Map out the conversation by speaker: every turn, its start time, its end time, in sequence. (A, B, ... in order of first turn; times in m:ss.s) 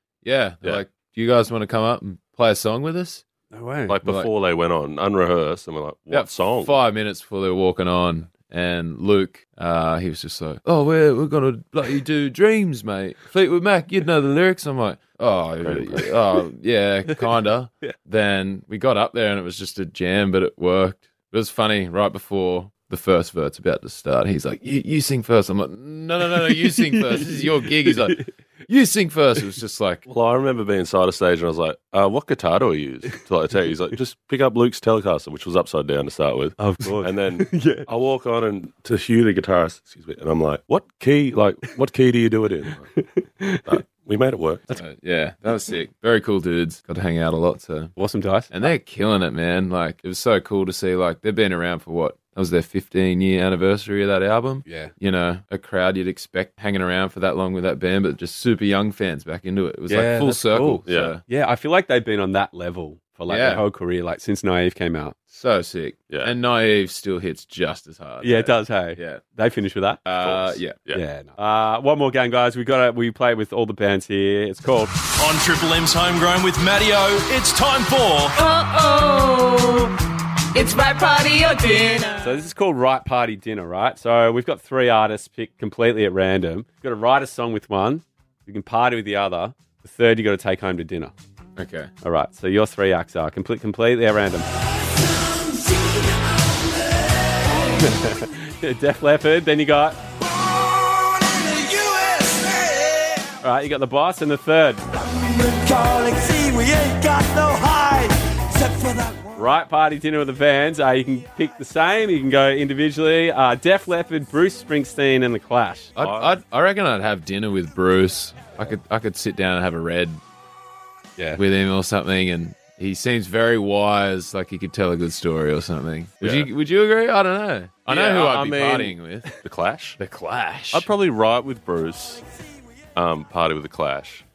0:00.2-0:03.2 A
0:03.5-0:04.0 B
0:03.9-0:06.7 C
0:04.0-0:04.3 A
0:06.1-0:30.0 A
0:15.6-0:16.1 C
0:26.6-0:28.3 B
0:30.1-0:43.0 C
0:36.6-0:37.9 B
0:42.9-0:43.8 B
0:43.7-0:44.8 C
0:44.7-0:47.9 A
0:48.0-0:48.5 B
0:48.5-1:01.2 A
0:54.7-0:54.9 B
0:59.9-1:05.2 B
1:00.9-1:01.2 C
1:03.3-1:03.6 A
1:05.3-1:09.2 A
1:06.1-1:06.3 C
1:08.2-1:10.0 B
1:10.0-1:10.8 A
1:10.2-1:11.0 C
1:10.9-1:15.0 B
1:15.2-1:18.4 D
1:18.3-1:20.0 E
1:20.5-1:22.4 E
1:22.2-1:31.1 B
1:31.6-1:31.9 A
1:32.0-1:34.5 B
1:35.4-1:36.6 E
1:37.7-1:40.0 B
1:40.2-1:43.3 E
1:43.4-1:44.8 B
1:44.9-1:49.4 E
1:49.4-1:55.9 B
1:56.0-2:00.2 A
1:56.0-1:56.4 C
2:01.2-2:01.4 B
2:01.4-2:09.3 A
2:06.2-2:06.5 C
2:07.9-2:10.0 C
2:10.0-2:10.9 A
2:10.7-2:12.2 C
2:13.0-2:14.2 C